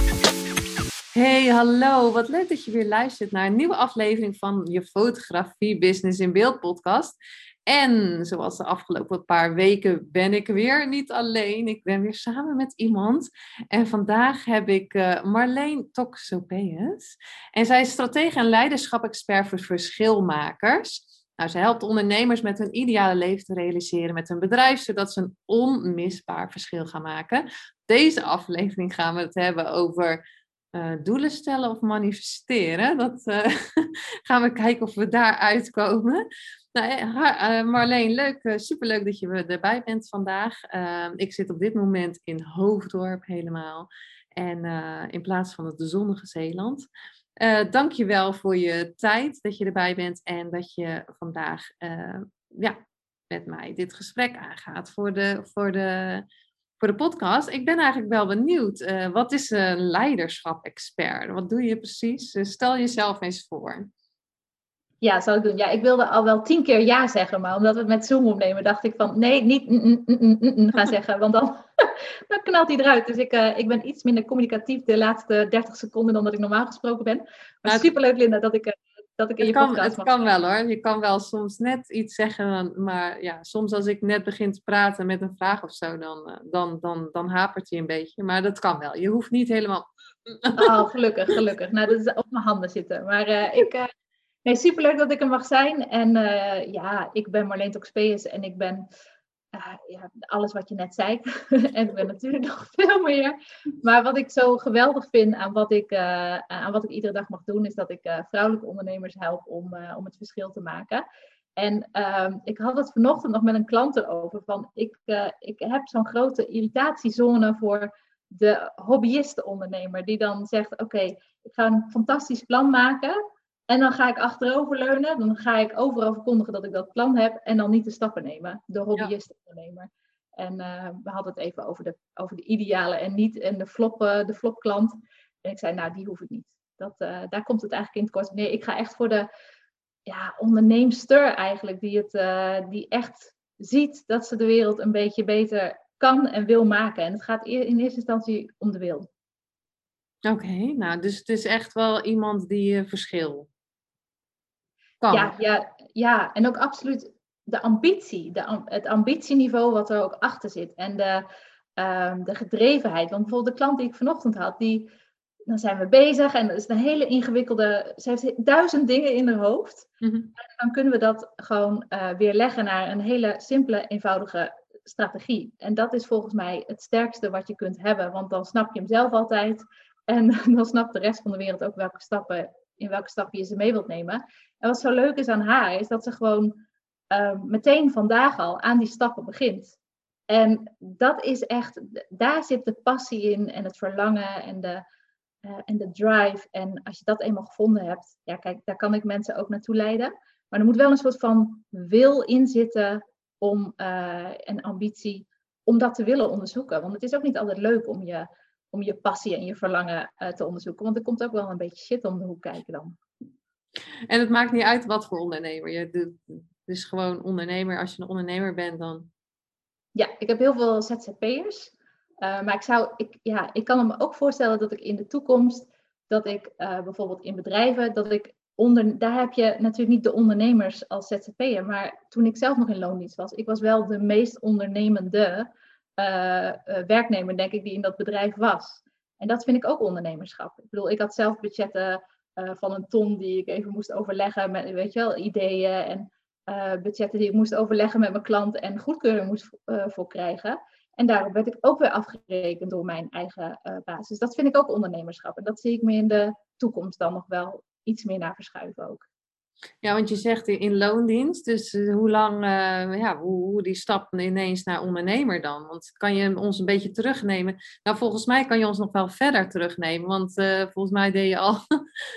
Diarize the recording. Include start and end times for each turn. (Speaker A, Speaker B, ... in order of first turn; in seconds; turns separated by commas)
Speaker A: 1.1-7.2, Speaker A: 7.7-30.2, Speaker A: 30.7-46.9, Speaker A: 47.4-56.2, Speaker A: 56.8-63.9, Speaker B: 65.0-80.2, Speaker A: 79.4-90.8, Speaker B: 90.5-93.9, Speaker B: 94.4-98.8, Speaker B: 99.5-111.0, Speaker B: 111.5-123.2, Speaker B: 123.7-139.3, Speaker B: 140.1-149.1, Speaker A: 150.2-153.5, Speaker A: 155.0-155.3, Speaker B: 155.1-161.2, Speaker B: 161.8-164.9, Speaker B: 165.5-189.8, Speaker A: 170.0-170.3, Speaker B: 190.3-194.8, Speaker B: 195.4-213.0, Speaker A: 214.1-219.1, Speaker B: 219.9-259.1, Speaker A: 259.8-271.6